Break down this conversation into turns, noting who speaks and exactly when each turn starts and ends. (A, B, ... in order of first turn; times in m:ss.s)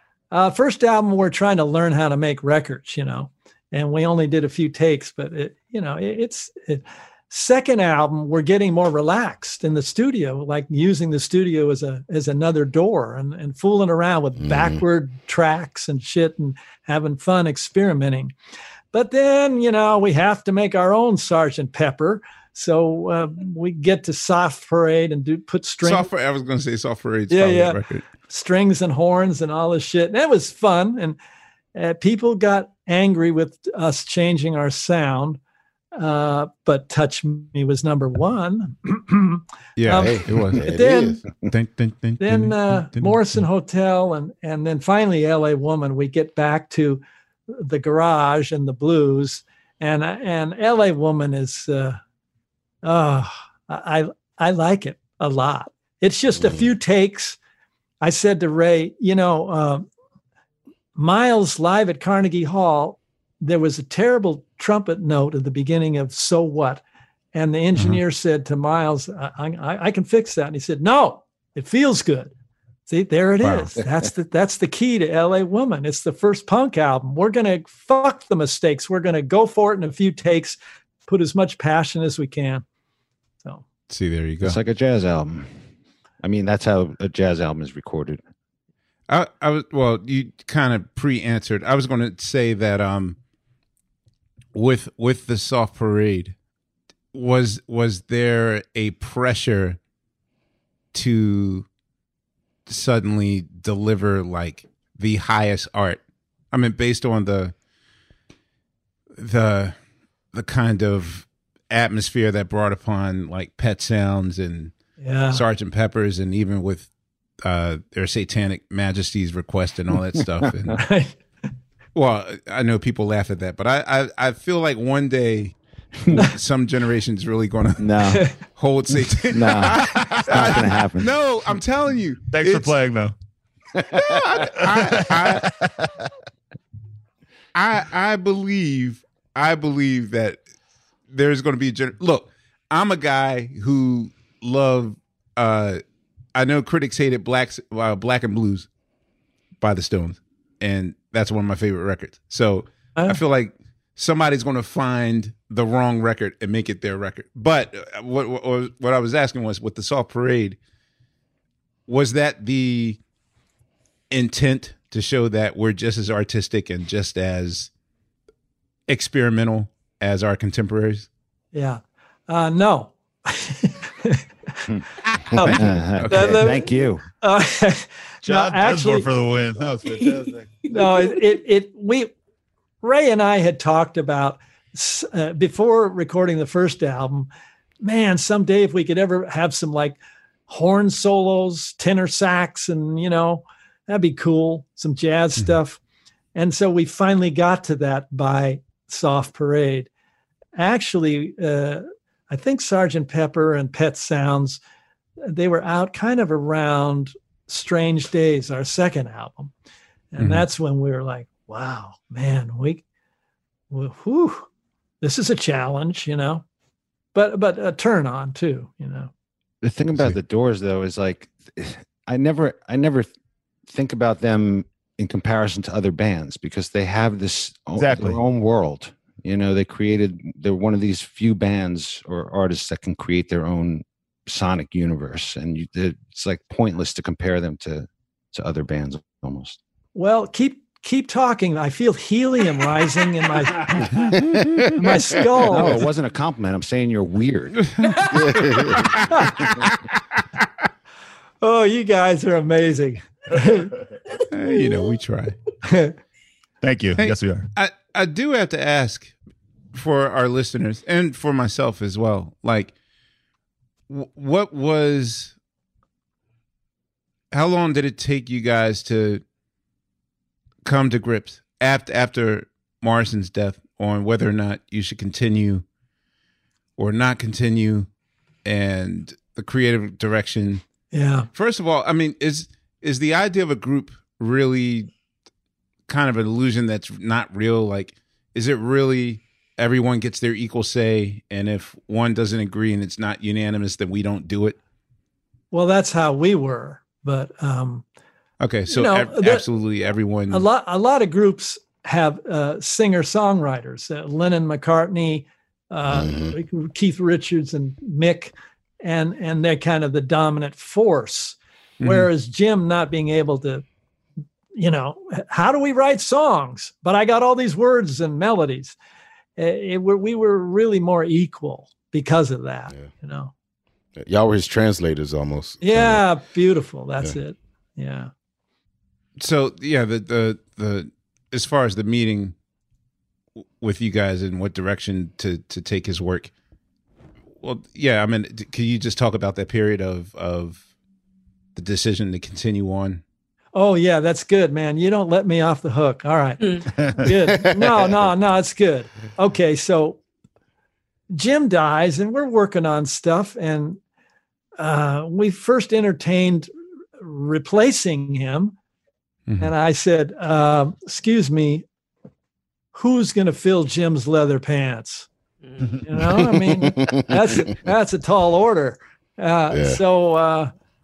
0:00.3-0:18.3 A
0:14.4-0:14.8 B
0:18.9-0:26.1 A
0:25.8-0:28.0 C
0:27.3-0:31.2 A
0:31.7-0:35.4 A
0:35.9-0:41.2 A
0:39.8-0:40.7 C
0:39.9-0:41.2 B
0:41.5-0:43.2 C
0:42.2-0:52.0 A
0:52.8-0:57.4 A
0:56.3-0:56.6 B
0:58.0-0:59.8 A
1:01.0-1:06.8 A
1:07.3-1:12.3 A
1:07.8-1:08.0 C
1:12.9-1:22.6 A
1:13.4-1:13.8 C
1:23.9-1:24.6 C
1:24.4-1:25.6 D
1:26.2-1:28.2 D
1:29.1-1:33.2 C
1:34.5-1:36.3 C
1:37.1-1:39.8 C
1:40.9-1:41.7 C
1:42.7-1:46.0 C
1:46.5-1:47.5 C
1:49.2-1:49.7 C
1:50.3-1:54.7 C
1:55.0-1:55.4 A
1:55.3-1:56.9 C
1:57.4-2:00.8 C
2:00.8-2:01.2 A
2:01.9-2:05.5 C
2:06.1-2:12.7 C
2:07.8-2:08.2 D
2:09.3-2:11.1 D
2:12.3-2:13.1 E
2:14.0-2:15.5 C
2:17.5-2:20.4 C
2:21.1-2:25.8 C
2:26.3-2:28.7 C
2:29.6-2:40.6 C
2:41.9-2:43.0 C
2:44.1-2:47.7 C
2:48.9-2:51.1 C
2:51.5-2:54.6 A
2:54.7-2:57.0 D
2:55.3-2:56.7 A
2:55.4-2:56.6 C
2:57.2-2:59.1 A
2:58.2-3:00.6 E
3:00.7-3:02.1 A
3:02.8-3:07.3 A
3:07.8-3:10.0 A
3:10.5-3:15.8 A
3:16.3-3:19.9 A
3:20.6-3:24.6 A
3:25.2-3:29.5 A
3:30.1-3:32.8 A
3:30.2-3:30.4 C
3:33.7-3:34.5 A
3:35.0-3:36.4 A
3:37.1-3:39.1 A
3:39.6-3:43.1 D
3:43.7-3:59.6 D
3:47.8-3:48.2 E
3:59.9-4:04.2 A
4:04.4-4:04.7 C
4:04.8-4:05.9 A
4:05.5-4:07.7 D
4:07.8-4:09.8 C
4:08.2-4:08.6 B
4:11.4-4:13.7 A
4:14.2-4:15.4 C
4:15.6-4:16.0 A
4:16.6-4:17.5 E
4:17.0-4:19.1 C
4:19.7-4:22.7 C
4:23.9-4:25.3 C
4:27.3-4:29.2 C
4:30.6-4:35.6 C
4:36.8-4:37.9 C
4:38.4-4:40.6 C
4:40.9-4:41.3 A
4:41.3-4:44.9 C
4:45.9-4:54.6 C
4:55.5-4:57.8 A
4:58.4-5:00.4 C
4:58.7-4:59.4 A
5:00.3-5:13.6 A
5:05.9-5:06.3 B
5:11.8-5:12.1 C
5:14.5-5:18.8 A
5:19.4-5:23.3 A
5:24.0-5:26.0 B
5:25.6-5:28.1 A
5:29.2-5:32.3 C
5:33.6-5:36.3 C
5:37.4-5:40.6 C
5:41.6-5:43.0 C
5:43.5-5:50.0 A
5:51.1-5:53.8 A
5:54.6-5:58.5 A
5:59.3-5:59.5 C
5:59.4-6:01.6 A
6:02.7-6:05.1 A
6:05.8-6:10.5 A
6:06.4-6:07.5 B
6:09.5-6:09.8 B